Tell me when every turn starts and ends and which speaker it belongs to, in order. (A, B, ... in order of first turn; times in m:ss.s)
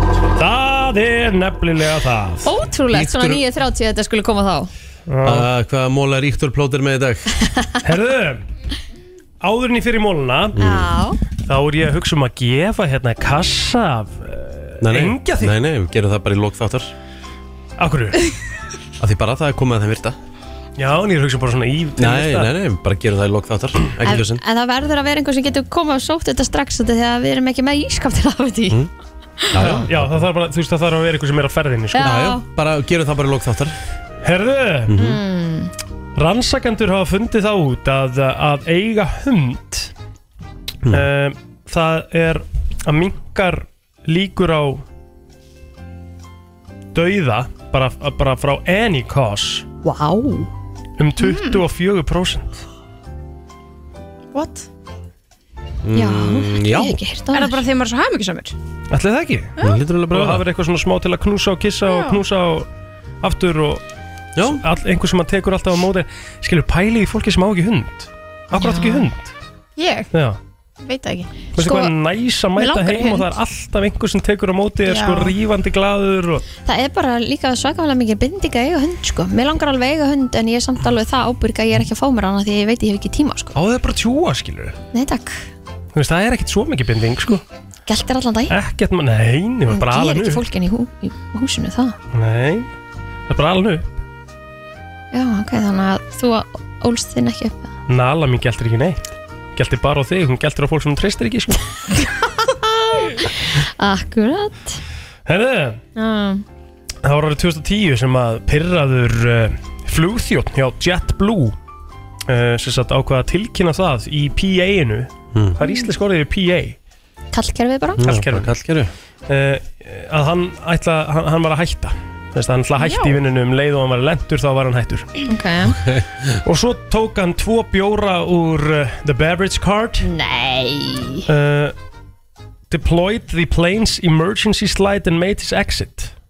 0:00.4-0:02.5 A
0:02.4-0:04.7 B
0:02.9-0:03.4 C
0:05.1-0:05.5 A
0:05.2-0:07.3 C
0:07.8-0:08.4 A
0:09.4-0:10.5 A
0:10.5-0:10.9 C
0:10.6-0:11.2 B
0:11.5-0:15.5 A
0:14.8-0:16.9 C
0:17.8-0:18.3 A
0:19.0-0:20.2 C
0:20.8-0:22.5 A
0:22.0-0:24.4 C
0:24.0-0:28.8 B
0:29.5-0:30.3 C
0:29.6-0:32.1 A
0:31.9-0:32.4 B
0:32.0-0:33.7 C
0:34.2-0:35.0 A
0:34.9-0:35.2 C
0:35.0-0:35.7 B
0:36.2-0:39.9 A
0:40.9-0:44.8 A
0:46.9-0:49.6 A
0:49.8-0:50.5 B
0:51.0-0:52.6 A
0:51.2-0:51.6 D
0:54.3-0:54.7 D
0:55.8-0:57.0 C
0:55.9-0:57.6 B
0:57.3-0:58.5 D
0:58.9-0:59.6 A
0:59.6-1:00.4 C
1:00.1-1:02.7 A
1:01.8-1:02.2 D
1:03.2-1:03.8 A
1:04.4-1:04.6 C
1:04.5-1:09.3 A
1:08.5-1:09.0 B
1:09.8-1:10.1 D
1:10.1-1:10.4 A
1:10.8-1:11.8 D
1:11.5-1:16.4 A
1:11.6-1:11.9 B
1:12.6-1:13.3 D
1:14.8-1:15.3 D
1:16.6-1:23.5 B
1:23.5-1:24.8 A
1:24.9-1:25.5 B
1:25.9-1:27.4 A
1:27.9-1:28.5 B
1:28.5-1:30.4 A
1:29.7-1:32.0 B
1:32.1-1:32.7 A
1:33.3-1:33.9 A
1:35.1-1:37.7 B
1:37.9-1:41.6 A
1:43.2-1:44.8 B
1:45.3-1:45.8 A
1:46.0-1:46.4 B
1:47.0-1:51.6 A
1:52.3-1:56.8 A
1:57.3-1:58.0 B
1:58.0-1:58.9 C
1:58.0-1:58.5 A
1:59.3-2:05.1 A
2:02.8-2:03.2 D
2:05.3-2:05.8 B
2:05.7-2:06.3 C
2:06.4-2:10.1 A
2:10.0-2:11.2 B
2:11.3-2:11.7 A
2:12.7-2:16.1 A